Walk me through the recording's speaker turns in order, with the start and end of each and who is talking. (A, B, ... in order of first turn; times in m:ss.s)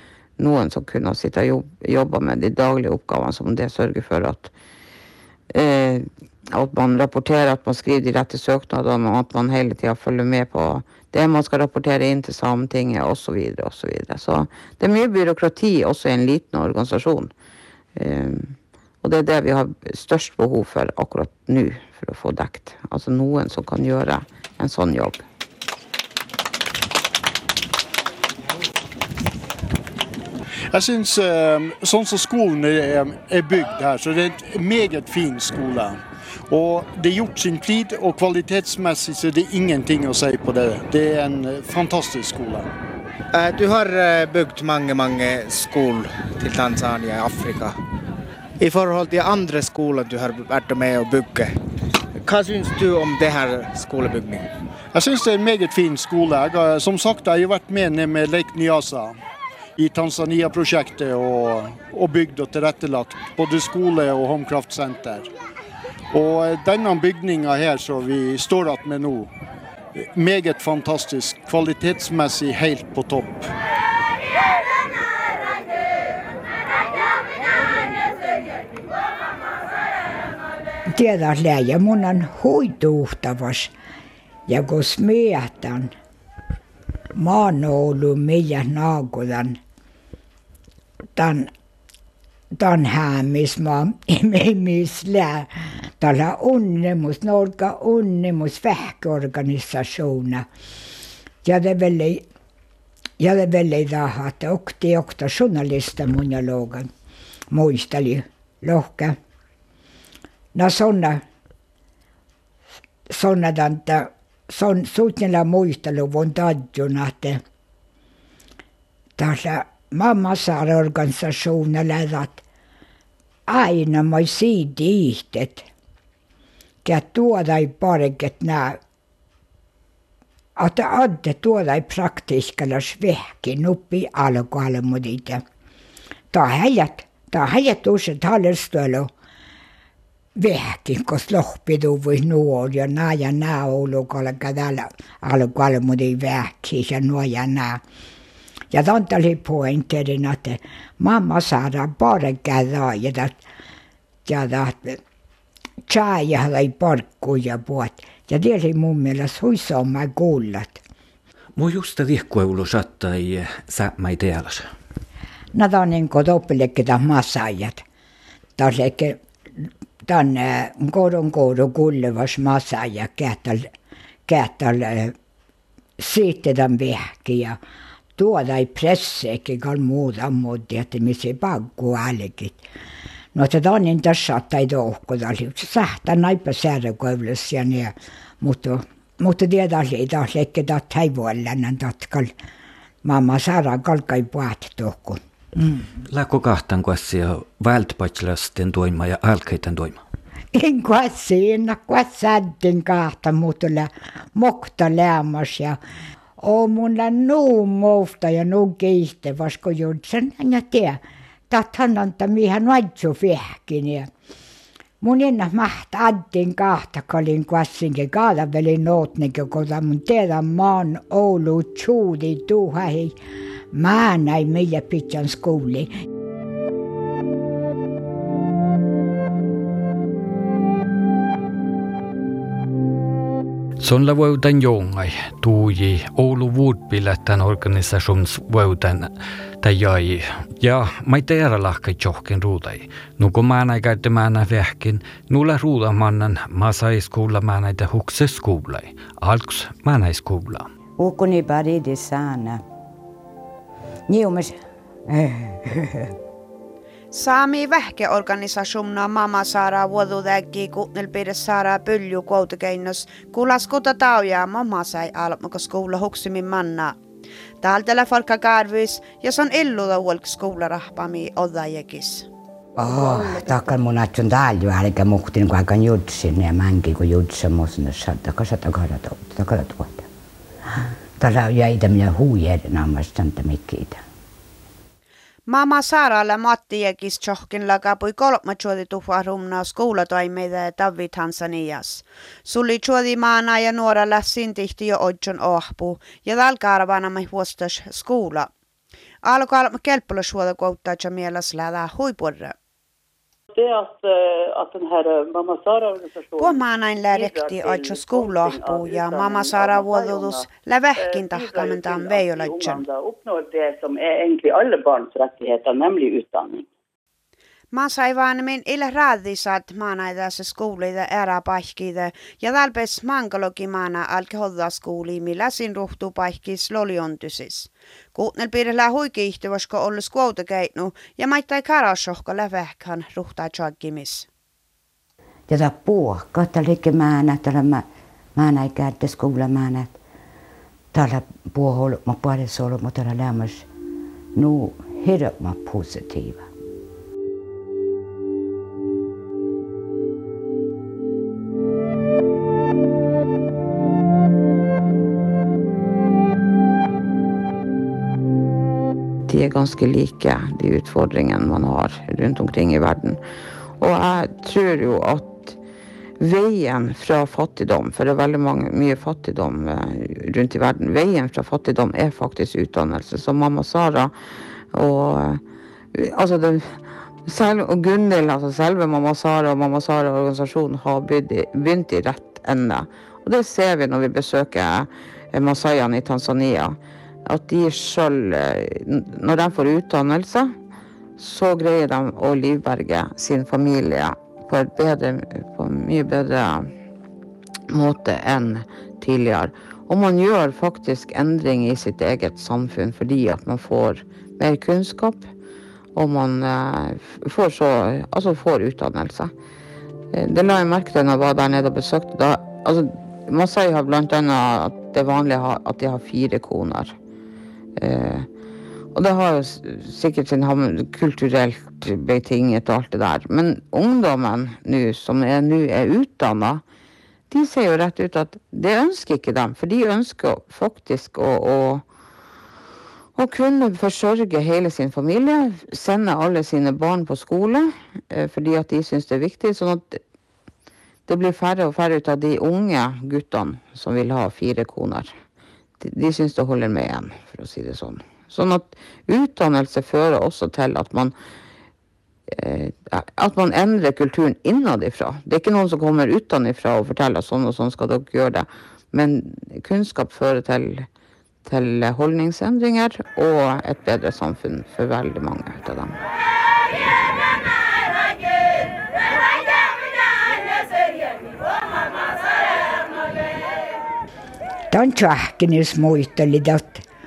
0:00.4-0:04.5 A
0:05.5-0:17.3 A
0:18.0-0:25.2 A
0:30.7-0:42.7 B
0:43.3-0:47.8 C
0:48.6-0:51.5 C
0:52.2-0:54.5 C
0:54.9-0:59.2 B
0:59.8-1:05.3 B
1:06.1-1:09.3 B
1:10.0-1:13.5 B
1:20.9-1:23.7 D
1:24.5-1:25.9 D
1:27.2-1:29.6 D
1:31.2-1:31.5 D
1:32.6-1:40.4 D
1:41.4-1:42.2 D
1:43.2-1:46.9 D
1:47.5-1:49.2 D
1:50.6-1:51.2 D
1:53.1-1:57.4 D
1:59.2-2:02.4 D
2:03.5-2:05.6 D
2:06.8-2:08.8 D
2:10.6-2:15.4 D
2:16.3-2:19.1 D
2:20.4-2:27.8 D
2:28.7-2:33.4 D
2:34.3-2:35.0 D
2:35.8-2:40.8 D
2:41.6-2:44.7 E
2:45.5-2:47.8 D
2:48.6-2:53.7 D
2:54.3-2:55.1 D
2:56.0-2:57.6 D
2:58.2-3:02.6 D
3:03.4-3:12.3 D
3:13.0-3:15.8 D
3:16.0-3:20.0 E
3:20.5-3:25.8 D
3:26.4-3:34.1 D
3:35.0-3:43.2 D
3:43.7-3:45.9 D
3:53.8-4:10.7 E
4:11.0-4:12.6 F
4:14.1-4:14.6 F
4:15.1-4:16.1 F
4:17.1-4:27.0 G
4:27.6-4:32.3 G
4:32.8-4:40.1 F
4:41.2-4:44.0 F
4:45.5-4:58.5 G
4:59.2-5:02.6 G
5:03.5-5:16.7 H
5:06.4-5:12.8 G
5:17.7-5:34.3 G
5:35.5-5:40.0 F
5:40.9-5:43.7 F
5:44.4-5:46.5 F
5:59.3-6:03.2 A
6:03.8-6:05.6 A
6:06.2-6:14.1 A
6:14.7-6:15.4 A
6:15.9-6:30.6 A
6:31.2-6:36.7 A
6:37.7-6:45.3 A
6:46.0-6:49.3 A
6:50.1-6:57.0 A
6:57.8-6:58.3 A
6:59.0-7:06.6 A
7:07.3-7:11.8 A
7:13.2-7:20.0 A
7:21.1-7:25.2 A
7:25.8-7:31.2 A
7:32.3-7:40.9 A
7:41.5-7:46.0 A
7:54.7-7:56.8 D